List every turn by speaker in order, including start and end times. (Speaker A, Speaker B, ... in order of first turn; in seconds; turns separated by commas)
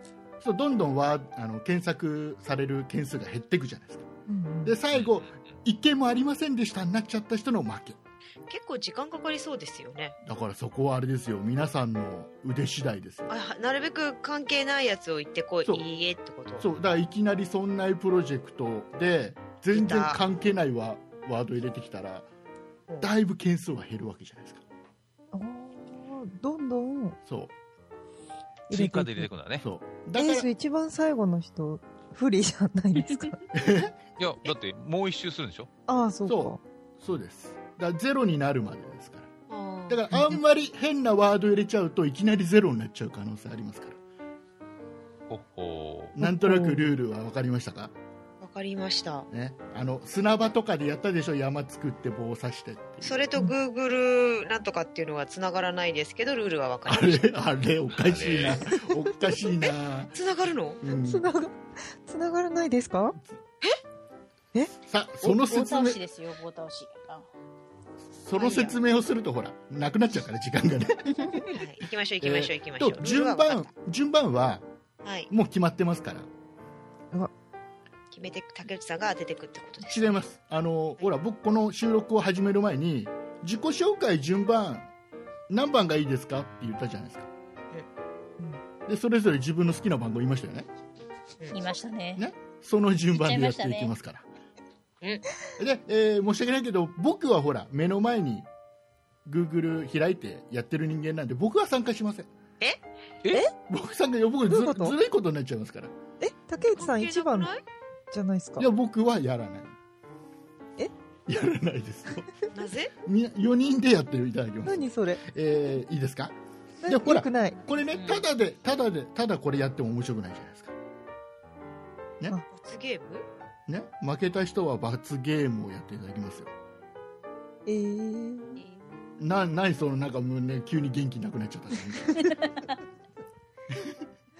Speaker A: 0.4-4.1, Speaker B: 4.3-4.8, Speaker A: 4.6-8.0, Speaker C: 4.9-5.3, Speaker D: 8.5-10.2, Speaker A: 10.2-13.3, Speaker D: 13.3-16.6, Speaker A: 16.6-22.3, Speaker D: 19.7-20.2, Speaker A: 23.0-24.6, Speaker B: 25.3-27.2, Speaker A: 27.3-27.5, Speaker B: 28.7-29.3, Speaker C: 28.7-29.6, Speaker A: 29.6-30.5, Speaker B: 30.2-33.4, Speaker A: 33.5-33.9, Speaker C: 34.2-35.7, Speaker B: 35.9-36.6, Speaker A: 36.2-39.3, Speaker D: 39.5-40.3, Speaker A: 39.9-44.0, Speaker B: 40.1-40.4, Speaker C: 45.3-46.1, Speaker A: 46.1-47.9, Speaker B: 46.2-46.9, Speaker D: 48.4-49.3, Speaker A: 49.3-53.2, Speaker D: 53.0-57.2, Speaker A: 56.9-60.1, Speaker C: 58.0-58.6, Speaker D: 59.6-60.8, Speaker A: 60.8-61.3, Speaker B: 60.9-63.2, Speaker A: 64.8-66.0, Speaker E: 65.2-67.3, Speaker A: 68.2-71.3, Speaker D: 68.4-68.7, Speaker D: 71.5-73.7, Speaker A: 72.2-74.7, Speaker D: 75.0-75.3, Speaker A: 75.3-76.3, Speaker D: 78.1-80.1, Speaker A: 79.8-84.9, Speaker A: 85.5-87.3, Speaker A: 88.9-90.7, Speaker E: 91.5-92.2, Speaker A: 92.2-94.2, Speaker E: 93.1-93.9, Speaker A: 95.6-98.5, Speaker A: 99.2-102.3, Speaker A: 103.7-105.9, Speaker B: 104.5-105.0, Speaker B: 106.2-107.5, Speaker D: 106.6-107.6, Speaker B: 108.1-108.7, Speaker A: 108.6-109.7, Speaker A: 111.3-112.3, Speaker D: 112.5-112.9, Speaker A: 113.0-120.7, Speaker B: 114.6-115.2, Speaker B: 116.8-117.6, Speaker E: 117.9-118.2, Speaker D: 122.5-123.3, Speaker A: 123.7-126.5, Speaker B: 127.7-128.6, Speaker D: 128.9-129.2, Speaker A: 129.2-132.2, Speaker E: 132.2-132.7